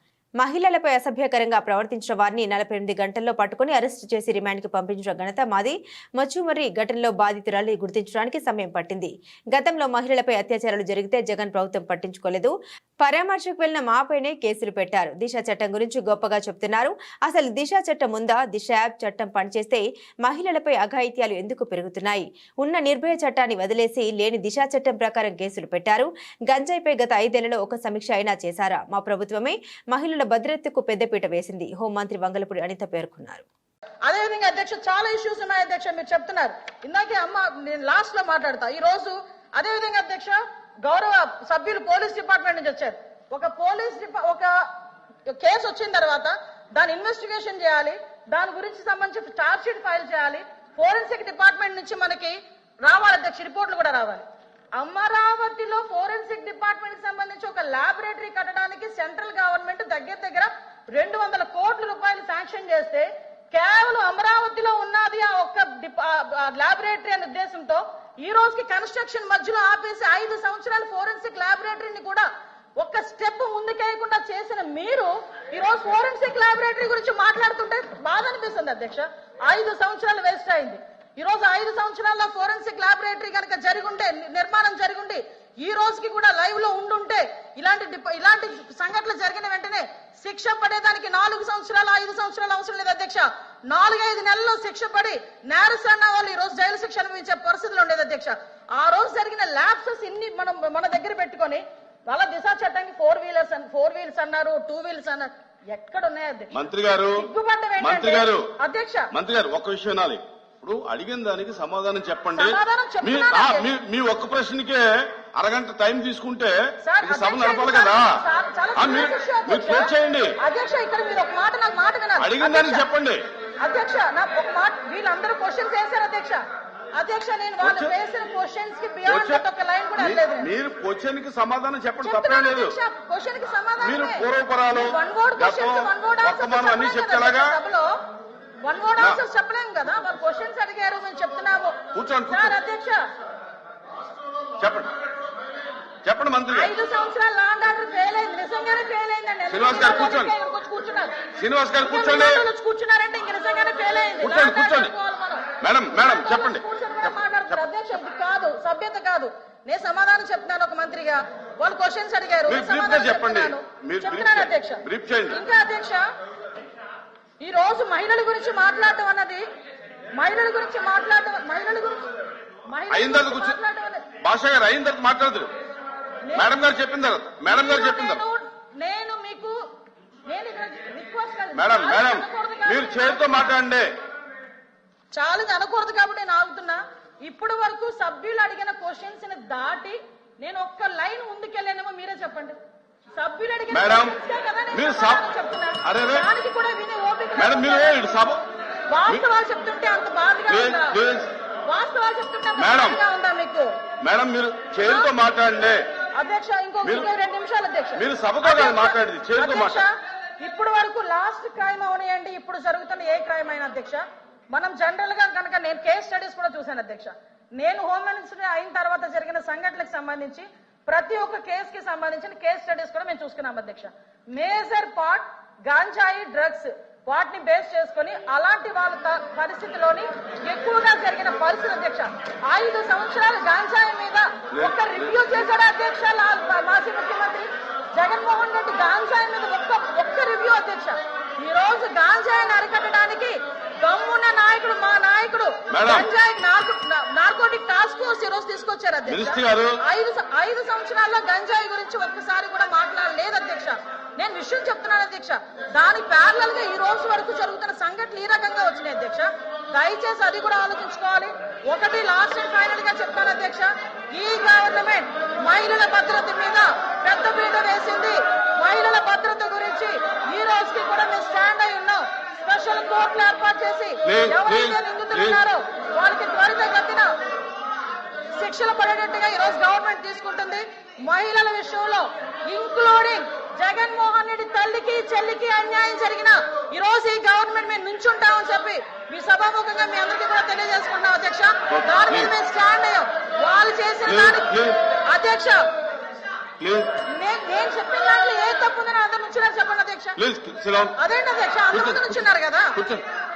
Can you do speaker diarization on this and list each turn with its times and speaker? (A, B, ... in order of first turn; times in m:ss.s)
0:00.4-0:33.4 A
0:34.0-0:44.6 B
0:45.3-0:54.2 B
0:54.8-1:12.2 B
1:12.8-1:46.5 B
1:46.5-1:47.3 C
1:47.1-1:49.1 B
1:47.8-1:48.5 C
1:49.1-1:58.1 C
1:52.3-1:53.7 B
1:56.8-2:02.8 B
1:58.8-2:00.4 C
2:02.2-2:03.2 C
2:03.6-2:06.4 B
2:07.0-2:10.5 B
2:07.6-2:07.9 C
2:09.0-2:09.4 C
2:10.0-2:12.8 C
2:12.0-2:17.9 B
2:13.8-2:17.6 C
2:18.6-2:21.8 B
2:21.9-2:22.5 C
2:22.3-2:23.0 B
2:24.6-2:24.9 C
2:26.0-2:26.7 C
2:26.5-2:31.2 B
2:29.5-2:30.3 C
2:31.4-2:32.4 C
2:31.8-2:46.0 B
2:34.2-2:34.9 C
2:35.6-2:37.6 C
2:42.5-2:45.4 C
2:47.4-2:49.4 B
2:50.1-2:52.0 B
2:52.7-2:54.1 B
2:52.9-2:53.6 C
2:54.2-2:55.5 C
2:56.2-2:56.5 B
2:56.4-2:58.2 C
2:57.5-2:59.6 B
3:00.3-3:03.5 B
3:01.5-3:03.9 C
3:05.1-3:12.6 B
3:13.2-3:18.3 B
3:13.7-3:14.2 C
3:14.7-3:15.2 C
3:15.8-3:16.3 C
3:17.4-3:18.4 C
3:18.9-3:21.0 B
3:20.5-3:21.3 C
3:21.7-3:23.7 B
3:22.6-3:23.0 C
3:24.0-3:25.8 C
3:24.8-3:25.1 B
3:26.2-3:34.0 B
3:26.8-3:27.1 C
3:27.9-3:29.8 C
3:34.5-4:37.1 B
3:54.5-3:55.2 C
4:05.7-4:06.1 C
4:09.1-4:09.8 C
4:34.0-4:35.4 C
4:38.4-4:54.6 B
4:51.7-4:52.3 C
4:54.0-4:54.8 C
4:55.1-4:55.6 B
4:56.6-4:57.0 C
4:57.1-5:00.2 B
5:00.2-5:01.0 C
5:01.0-5:02.7 B
5:01.7-5:02.2 C
5:02.7-5:03.0 C